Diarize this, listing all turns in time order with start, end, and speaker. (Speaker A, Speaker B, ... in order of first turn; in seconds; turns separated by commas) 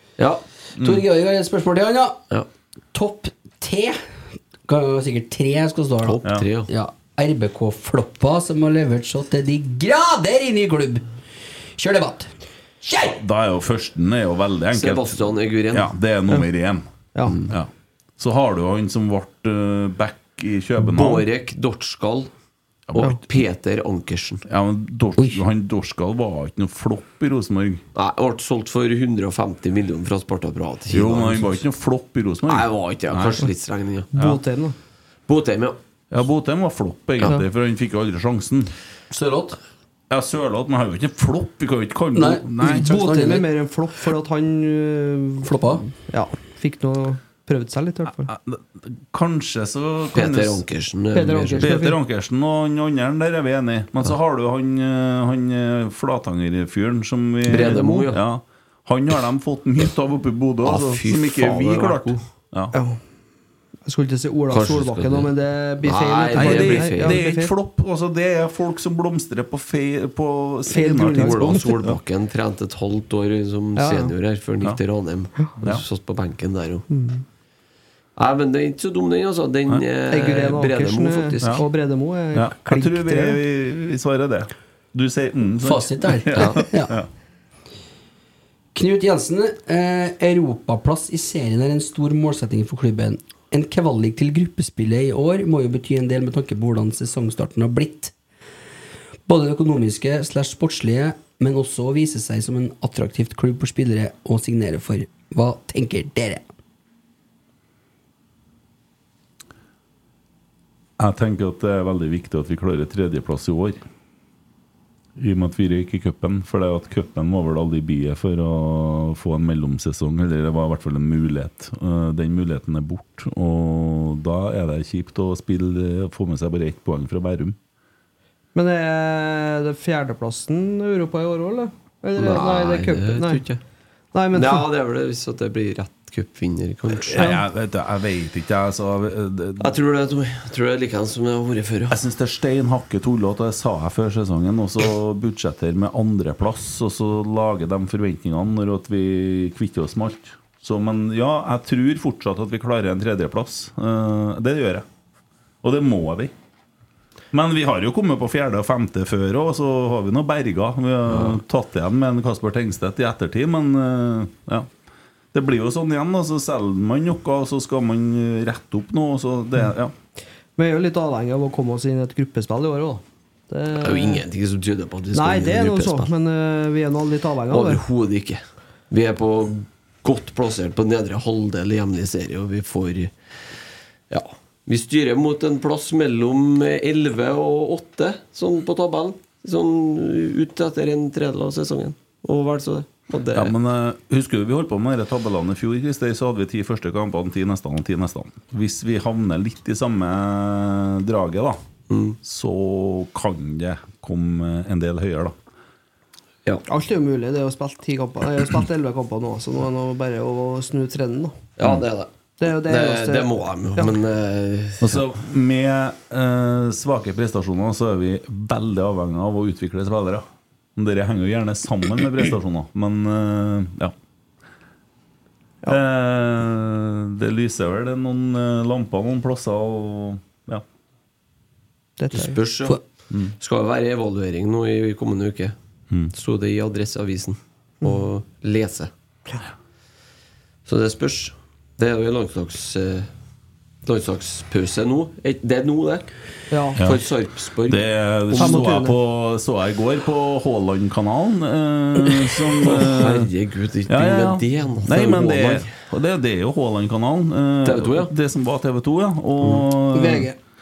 Speaker A: 0.2-0.4, Speaker B: 0.8-1.0, Speaker C: 0.8-2.2, Speaker C: 2.9-4.0, Speaker C: 4.6-11.0, Speaker A: 6.0-6.7, Speaker C: 11.8-12.3, Speaker B: 12.9-21.3, Speaker A: 14.7-15.9, Speaker D: 17.1-17.4, Speaker A: 20.8-22.3, Speaker B: 22.9-23.2, Speaker A: 23.0-24.4, Speaker B: 24.5-27.8, Speaker C: 25.2-25.4, Speaker A: 27.9-31.6, Speaker B: 30.9-33.5, Speaker A: 32.5-34.1, Speaker D: 34.1-34.8, Speaker B: 34.1-34.4, Speaker A: 35.3-35.8, Speaker B: 36.1-38.7, Speaker C: 39.1-39.6, Speaker B: 40.1-42.9, Speaker C: 42.1-43.5, Speaker D: 42.6-48.3, Speaker C: 45.4-45.8, Speaker B: 48.1-50.6, Speaker A: 50.1-51.7, Speaker D: 51.1-52.0, Speaker B: 51.6-62.8, Speaker A: 57.5-58.2, Speaker D: 57.7-58.0, Speaker A: 60.6-62.2, Speaker D: 62.7-63.0, Speaker D: 63.9-67.5, Speaker A: 64.5-67.2, Speaker B: 66.3-71.9, Speaker D: 70.7-71.7, Speaker A: 71.1-76.9, Speaker D: 73.8-74.1, Speaker D: 76.9-77.2, Speaker A: 78.2-81.6, Speaker D: 80.1-83.4, Speaker B: 82.3-87.1, Speaker C: 85.6-86.9, Speaker C: 88.7-98.1, Speaker C: 99.3-106.5, Speaker B: 111.0-113.8, Speaker B: 115.2-127.6, Speaker D: 128.5-133.4, Speaker A: 132.2-133.6, Speaker D: 134.1-134.7, Speaker A: 134.3-137.3, Speaker B: 137.0-139.8, Speaker A: 139.6-141.9, Speaker B: 141.9-154.8, Speaker B: 155.6-156.3, Speaker B: 157.3-164.7, Speaker A: 161.1-161.4, Speaker B: 165.3-169.9, Speaker D: 170.6-174.2, Speaker A: 173.8-176.1, Speaker D: 175.1-177.8, Speaker A: 177.5-183.1, Speaker A: 184.1-193.5, Speaker B: 193.3-201.6, Speaker A: 201.9-202.2, Speaker B: 202.2-205.3, Speaker D: 206.7-211.4, Speaker A: 211.6-215.0, Speaker D: 212.4-213.9, Speaker B: 214.8-223.9, Speaker B: 225.7-230.6, Speaker D: 232.0-232.4, Speaker A: 232.1-232.8, Speaker A: 233.4-235.5, Speaker A: 236.1-238.9, Speaker A: 240.7-243.1, Speaker A: 243.8-246.1, Speaker D: 246.5-246.8, Speaker B: 246.8-247.0, Speaker A: 246.8-248.7, Speaker B: 247.7-253.3, Speaker D: 248.3-248.9, Speaker A: 252.6-255.7, Speaker B: 253.9-260.3, Speaker A: 257.6-258.1, Speaker D: 259.9-260.4